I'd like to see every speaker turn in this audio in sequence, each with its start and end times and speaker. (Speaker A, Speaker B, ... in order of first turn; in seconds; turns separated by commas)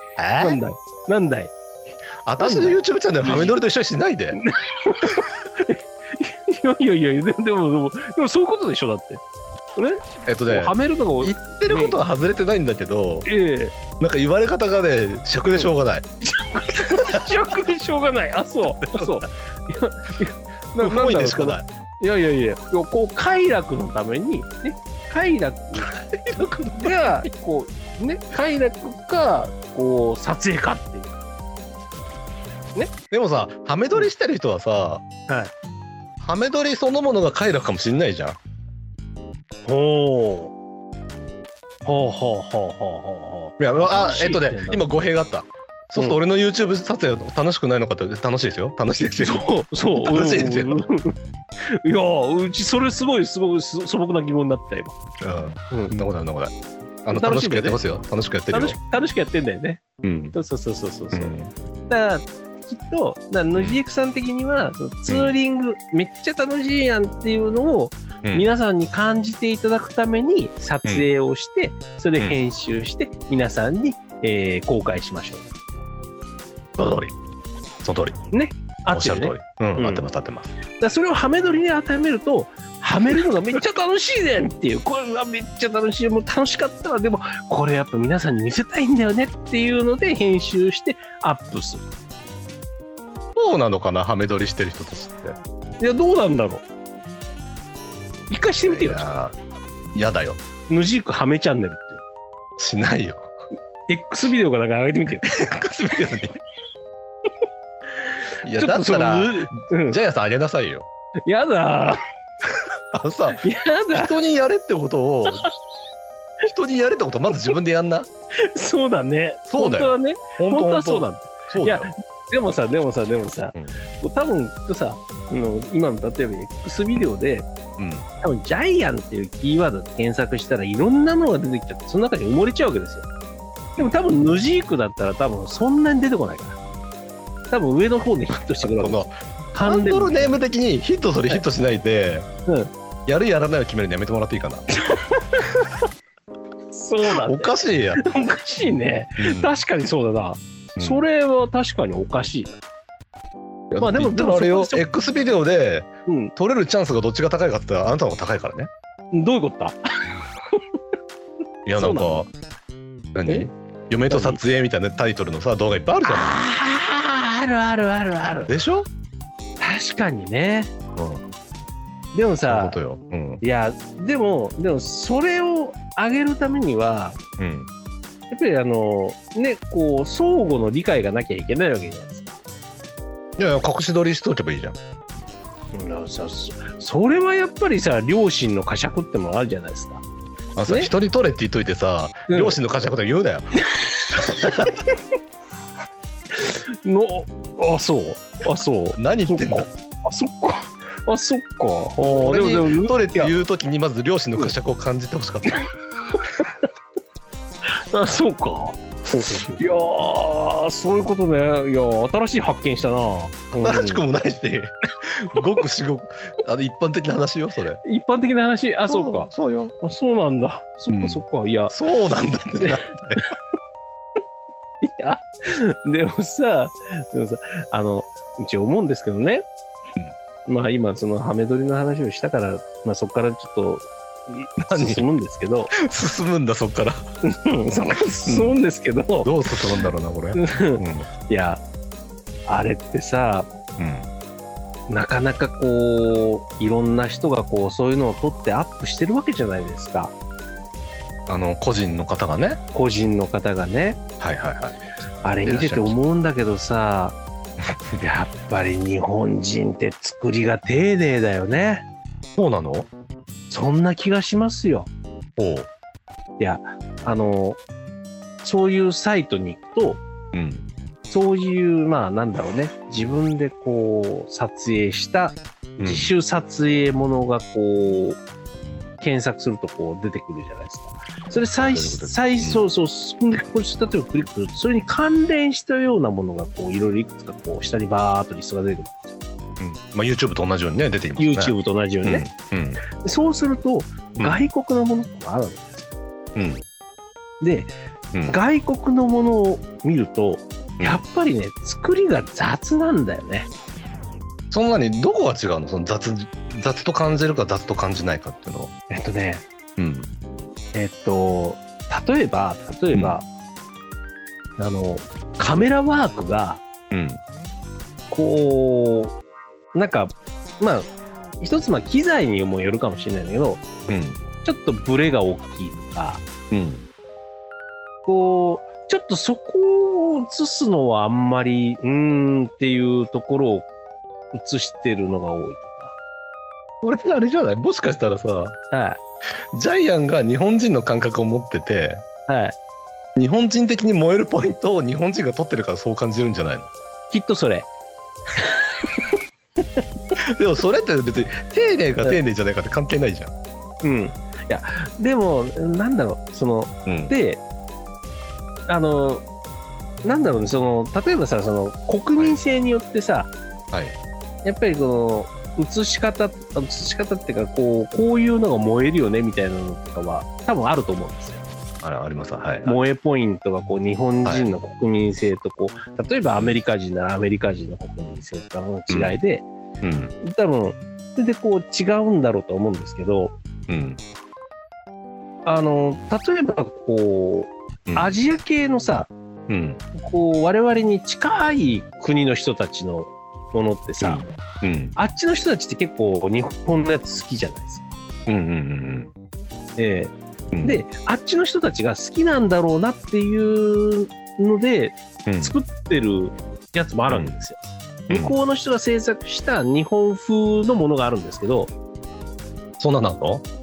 Speaker A: 0.2-0.6, Speaker B: 0.4-1.5, Speaker A: 2.2-4.4, Speaker B: 2.4-3.5, Speaker B: 4.3-9.2, Speaker B: 9.8-12.0, Speaker A: 10.2-13.3, Speaker B: 13.2-13.7, Speaker A: 14.0-16.1, Speaker B: 16.2-25.9, Speaker A: 18.9-19.2, Speaker A: 20.8-21.7, Speaker A: 25.8-27.2, Speaker B: 26.8-31.1, Speaker A: 33.1-35.0, Speaker A: 36.2-38.4, Speaker B: 39.6-40.5, Speaker B: 41.8-44.9, Speaker A: 43.6-49.5, Speaker B: 49.2-51.1, Speaker A: 50.0-50.8, Speaker B: 51.7-54.9, Speaker A: 55.2-56.5, Speaker A: 57.0-58.8, Speaker B: 57.1-57.8, Speaker B: 58.5-61.4, Speaker A: 60.0-60.3, Speaker A: 61.1-61.5, Speaker B: 61.9-75.4, Speaker A: 65.1-65.3, Speaker A: 76.8-77.1, Speaker A: 77.8-78.2, Speaker B: 78.3-80.0, Speaker A: 78.9-80.5, Speaker B: 80.8-91.8, Speaker A: 93.3-95.4, Speaker B: 95.8-96.6, Speaker B: 98.3-99.1, Speaker A: 98.6-99.3, Speaker A: 99.9-100.4, Speaker B: 100.7-102.0, Speaker A: 102.6-103.3, Speaker B: 103.9-105.2, Speaker A: 105.2-106.3, Speaker A: 108.4-110.9, Speaker B: 108.5-110.0, Speaker B: 111.2-112.0, Speaker A: 112.9-113.4, Speaker B: 113.4-114.1, Speaker A: 113.9-115.4, Speaker A: 116.4-118.1, Speaker B: 118.4-127.5, Speaker A: 119.5-121.9, Speaker A: 127.8-128.1, Speaker B: 128.2-133.1, Speaker B: 133.8-136.6, Speaker B: 137.5-140.4, Speaker A: 138.6-142.3, Speaker A: 143.1-144.7, Speaker B: 144.9-145.7, Speaker B: 146.7-152.6, Speaker A: 147.2-148.0, Speaker A: 149.2-149.5, Speaker A: 150.8-151.0, Speaker A: 153.7-158.7, Speaker B: 153.8-154.8, Speaker B: 156.1-156.3, Speaker B: 159.1-159.8, Speaker A: 161.7-162.3, Speaker B: 161.8-162.2, Speaker A: 163.1-166.3, Speaker B: 164.1-164.4, Speaker B: 166.0-168.5, Speaker A: 168.5-168.8, Speaker B: 169.6-170.7, Speaker A: 171.0-171.2, Speaker B: 172.1-172.8, Speaker A: 172.4-173.4, Speaker B: 173.4-177.2, Speaker A: 177.4-177.7, Speaker B: 178.3-182.4, Speaker A: 183.4-184.8, Speaker B: 185.7-190.0, Speaker A: 190.6-193.5, Speaker B: 192.3-192.6, Speaker B: 193.7-194.8, Speaker A: 194.3-194.7, Speaker B: 196.4-203.3, Speaker A: 198.9-199.7, Speaker A: 202.0-205.6, Speaker B: 206.1-206.7, Speaker B: 207.9-214.0, Speaker A: 209.2-209.6, Speaker A: 213.6-217.8, Speaker B: 217.8-221.7, Speaker A: 218.9-219.7, Speaker A: 220.9-223.2, Speaker B: 222.6-223.3, Speaker B: 224.8-229.4, Speaker B: 230.5-235.7, Speaker A: 234.7-235.0, Speaker A: 235.8-236.9, Speaker B: 237.2-239.3, Speaker A: 238.2-238.5, Speaker A: 239.2-241.1, Speaker B: 240.3-241.6, Speaker B: 242.5-243.5, Speaker A: 243.8-244.1, Speaker B: 244.9-250.1, Speaker A: 251.3-252.6, Speaker B: 252.7-254.0, Speaker A: 254.2-254.8, Speaker B: 255.2-257.2, Speaker A: 255.4-255.9, Speaker B: 258.0-261.9, Speaker A: 262.4-262.9, Speaker B: 263.5-264.9, Speaker A: 265.4-265.7, Speaker B: 266.4-267.6, Speaker B: 268.4-270.0, Speaker A: 270.3-270.7, Speaker B: 271.1-278.2, Speaker A: 275.8-276.1, Speaker B: 279.0-289.1, Speaker A: 281.6-282.6, Speaker A: 289.6-292.8, Speaker B: 291.2-292.3, Speaker B: 292.9-295.9, Speaker A: 294.1-294.4, Speaker A: 296.3-296.6, Speaker B: 297.4-297.7, Speaker A: 298.1-298.4, Speaker B: 298.3-303.5, Speaker A: 304.5-308.7, Speaker B: 308.9-309.4, Speaker A: 309.8-310.1, Speaker B: 310.7-313.2, Speaker B: 314.6-316.6, Speaker A: 316.9-317.2, Speaker B: 318.1-319.1, Speaker B: 319.7-320.9, Speaker B: 321.4-323.6, Speaker A: 323.9-324.2, Speaker B: 324.4-326.2, Speaker A: 326.5-326.8, Speaker B: 328.1-333.7, Speaker B: 334.3-335.9, Speaker A: 336.8-338.6, Speaker B: 338.7-339.0, Speaker A: 339.5-342.0, Speaker B: 342.3-342.6, Speaker A: 343.1-346.7, Speaker B: 347.1-347.7, Speaker B: 348.4-348.9, Speaker A: 350.4-353.3, Speaker B: 353.8-357.4, Speaker A: 356.9-357.1, Speaker B: 358.7-359.2, Speaker B: 360.0-363.3, Speaker B: 364.4-371.4, Speaker A: 371.8-372.8, Speaker B: 372.6-379.5, Speaker A: 374.2-374.5, Speaker A: 378.9-379.2, Speaker A: 379.8-380.1, Speaker B: 380.2-383.3, Speaker A: 383.7-384.0, Speaker B: 385.4-389.1, Speaker A: 387.9-388.1, Speaker A: 389.5-389.8, Speaker B: 389.9-394.3, Speaker A: 394.0-394.9, Speaker B: 394.9-397.9, Speaker A: 398.3-399.1, Speaker B: 399.8-411.7, Speaker A: 400.5-400.8, Speaker A: 405.2-405.6, Speaker A: 407.1-407.3, Speaker A: 408.1-408.4, Speaker A: 412.8-413.4